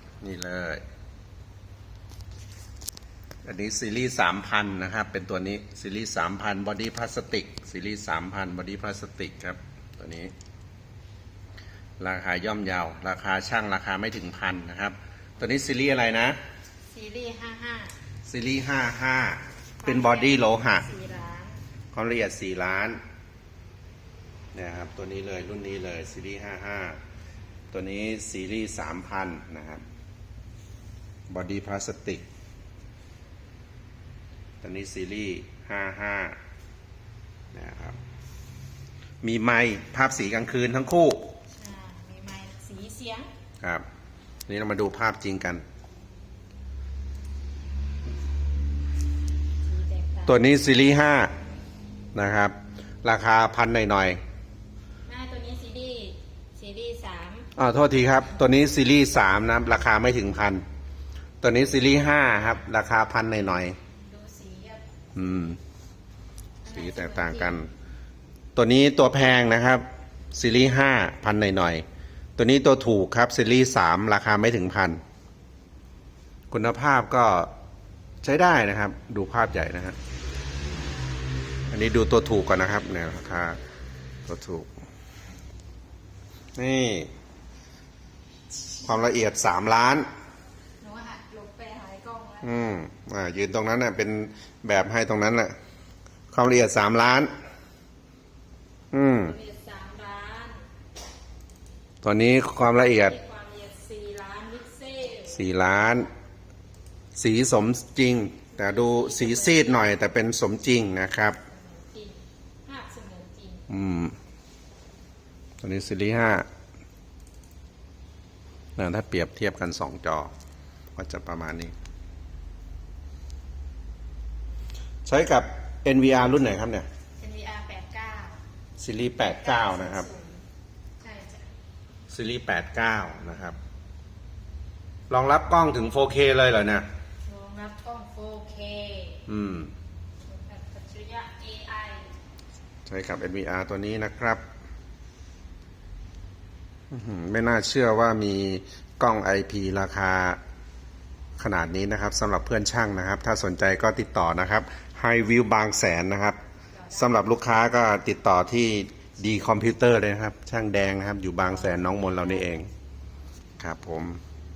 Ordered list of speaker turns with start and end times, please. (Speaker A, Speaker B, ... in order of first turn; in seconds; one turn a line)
Speaker A: 0.2-0.8
Speaker A: 3.4-10.3
Speaker A: 12.0-16.4
Speaker B: 16.9-18.0
Speaker A: 18.2-20.8
Speaker B: 19.8-21.6
Speaker A: 21.9-23.0
Speaker A: 24.5-27.0
Speaker A: 27.7-29.8
Speaker A: 31.3-32.2
Speaker A: 34.6-36.4
Speaker A: 37.5-38.0
Speaker A: 39.2-41.3
Speaker B: 41.5-43.3
Speaker A: 44.5-45.6
Speaker B: 49.6-50.5
Speaker A: 50.3-51.3
Speaker A: 52.1-54.2
Speaker B: 55.1-57.5
Speaker A: 57.5-60.6
Speaker A: 61.4-63.8
Speaker B: 63.9-64.8
Speaker A: 65.1-65.6
Speaker B: 66.6-67.6
Speaker A: 66.7-67.7
Speaker A: 68.5-71.8
Speaker A: 72.4-75.0
Speaker A: 76.5-77.5
Speaker A: 78.2-80.0
Speaker A: 81.7-83.6
Speaker A: 84.3-84.7
Speaker A: 86.5-87.1
Speaker A: 88.8-90.1
Speaker B: 90.8-92.6
Speaker A: 92.4-95.5
Speaker A: 96.3-97.3
Speaker A: 98.9-99.3
Speaker B: 99.1-100.6
Speaker A: 102.0-103.2
Speaker B: 102.7-105.4
Speaker A: 105.3-106.1
Speaker A: 107.2-111.4
Speaker B: 108.5-110.0
Speaker B: 111.5-113.6
Speaker A: 113.7-114.2
Speaker A: 115.6-116.5
Speaker A: 118.8-120.3
Speaker A: 120.9-121.7
Speaker A: 125.0-126.9
Speaker B: 127.2-128.4
Speaker A: 128.8-130.1
Speaker B: 129.2-130.4
Speaker B: 131.0-131.5
Speaker A: 132.1-133.6
Speaker A: 135.1-136.9
Speaker B: 137.2-139.2
Speaker A: 139.3-139.7
Speaker B: 140.2-142.1
Speaker A: 142.8-144.4
Speaker A: 146.9-150.4
Speaker A: 151.4-156.4
Speaker B: 156.7-157.3
Speaker A: 156.9-162.7
Speaker B: 161.4-162.6
Speaker A: 163.6-164.2